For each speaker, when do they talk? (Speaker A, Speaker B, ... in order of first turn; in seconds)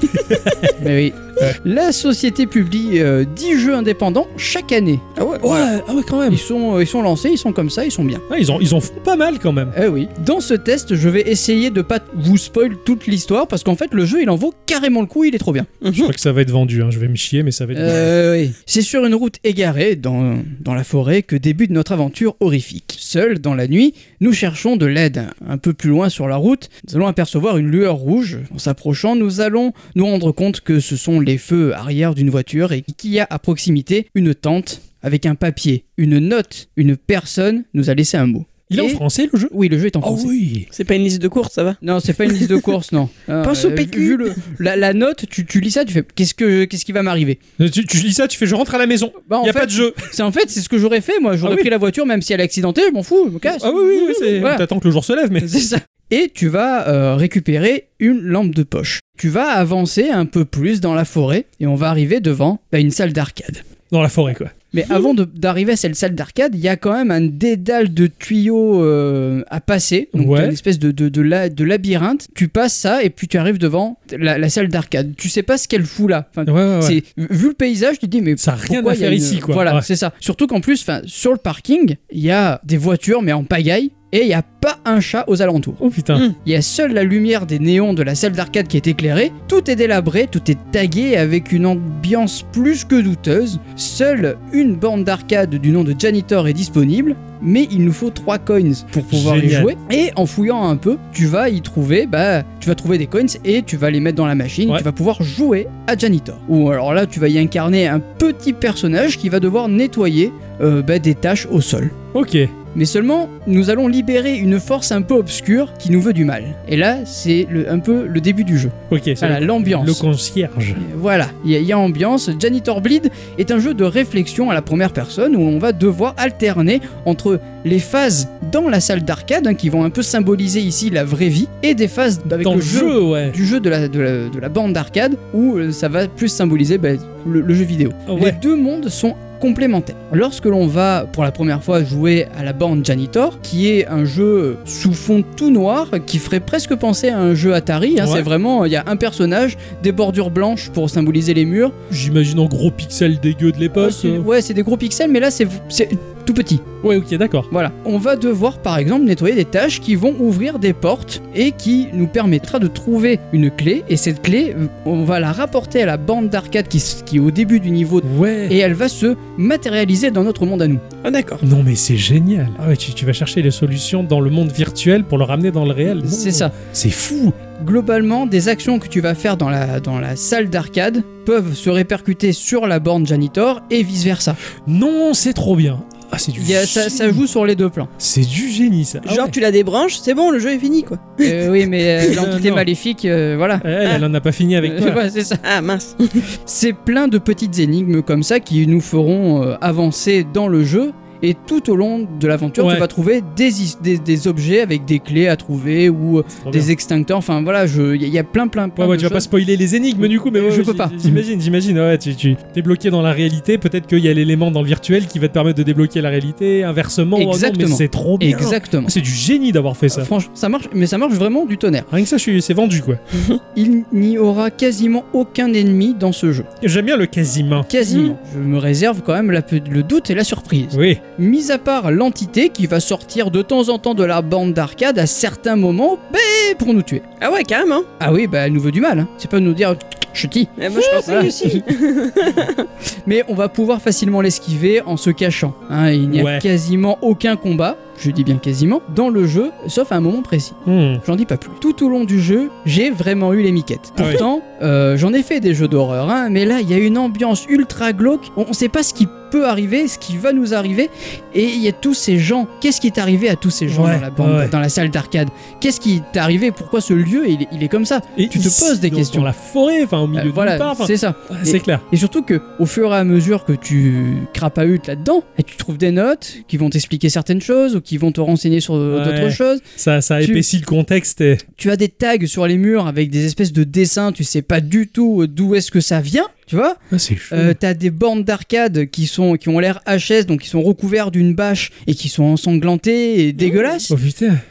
Speaker A: 0.2-0.8, 5.4-6.4, 8.3-9.7, 15.9-18.1, 38.7-40.7, 47.6-50.1, 51.4-51.7, 53.6-55.5, 63.9-64.5, 70.1-70.6, 76.5-77.0, 78.4-79.9, 85.8-86.3, 99.1-99.8, 112.1-112.5, 118.9-120.8, 132.3-133.4, 138.1-138.4, 148.0-148.3, 151.9-154.3, 156.8-157.5, 168.0-168.6, 171.4-177.2, 184.7-187.2, 188.0-189.4, 192.0-192.7, 193.6-195.0, 202.6-202.9, 206.4-206.7, 208.8-220.1, 221.9-223.0, 226.6-227.7, 230.7-231.0, 240.8-241.6, 246.1-246.5, 250.7-251.0, 254.0-254.2, 263.7-264.6, 268.2-271.9, 278.9-281.4, 286.9-287.6, 293.9-294.4
Speaker B: 0.8-5.0, 6.3-8.2, 9.7-15.7, 17.8-40.3, 41.8-47.4, 49.3-54.6, 55.4-63.6, 64.7-85.8, 86.4-112.0, 112.7-120.0, 120.8-151.7, 153.8-156.7, 157.5-170.8, 175.9-176.5, 177.2-184.4, 186.4-187.9, 191.2-193.7, 194.6-195.4, 196.5-209.3, 210.0-211.2, 217.2-218.9, 219.9-221.9, 223.6-226.5, 227.7-237.0, 238.0-241.7, 243.1-269.3, 270.1-279.6, 281.6-286.8, 287.3-293.9
Speaker C: 5.2-5.7, 15.8-16.1, 40.7-42.7, 43.4-44.4, 171.0-171.4, 189.1-191.5, 195.4-196.2, 223.1-223.4, 227.8-228.2, 237.2-237.9, 240.6-242.7